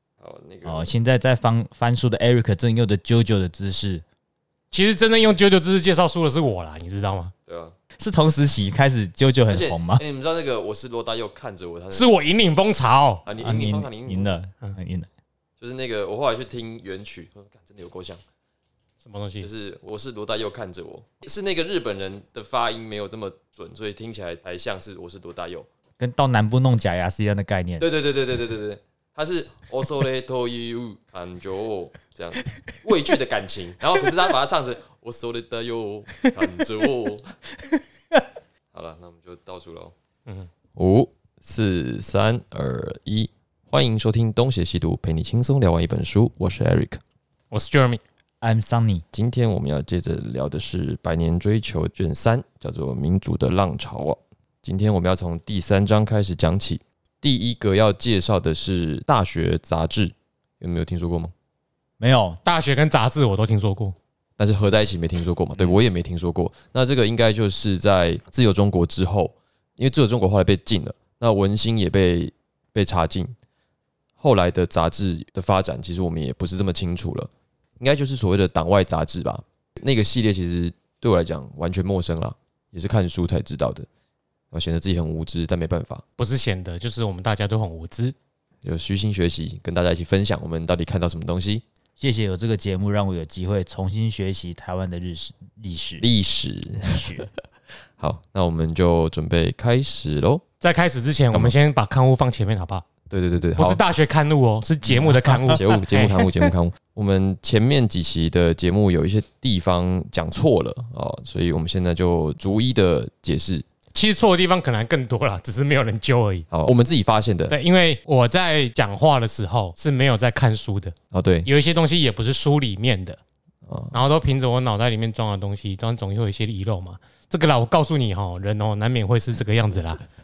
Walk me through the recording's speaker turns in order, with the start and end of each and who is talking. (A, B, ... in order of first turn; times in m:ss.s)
0:00.2-0:00.9 A
0:00.6-0:04.0 B
0:04.7-0:07.3 C
0:07.5-0:07.7 A
0:08.0-0:10.0 B
0:09.5-0:12.1 A
0:11.9-0:13.2 C
0:13.2-0:14.3 A
0:13.4-0:15.1 B
0:15.6-0:18.2 A
0:19.0-0:19.5 C
0:19.4-0:25.7 A
0:26.0-0:27.9 B
0:27.8-0:37.4 A
0:38.7-0:39.9 A
0:40.8-0:47.0 A
0:47.5-0:48.0 C
0:48.4-0:49.0 B
0:49.1-1:01.3 A
1:02.0-1:02.4 B
1:02.4-1:04.0 C
1:04.4-1:13.3 A
1:14.2-1:23.9 A
1:24.5-1:26.0 A
1:26.2-1:28.2 C
1:28.6-1:31.6 A
1:32.0-1:36.1 B
1:36.0-1:37.2 A
1:36.9-1:37.3 B
1:38.0-1:40.4 A
1:40.6-1:42.8 C
1:41.3-1:41.6 A
1:43.1-1:43.8 A
1:43.6-1:46.3 C
1:44.9-1:45.6 B
1:45.6-1:53.7 A
1:53.9-1:56.5 C
1:56.5-1:57.6 A
1:57.5-2:01.0 C
2:01.1-2:01.5 A
2:01.5-2:03.2 C
2:03.7-2:04.0 A
2:03.9-2:10.0 C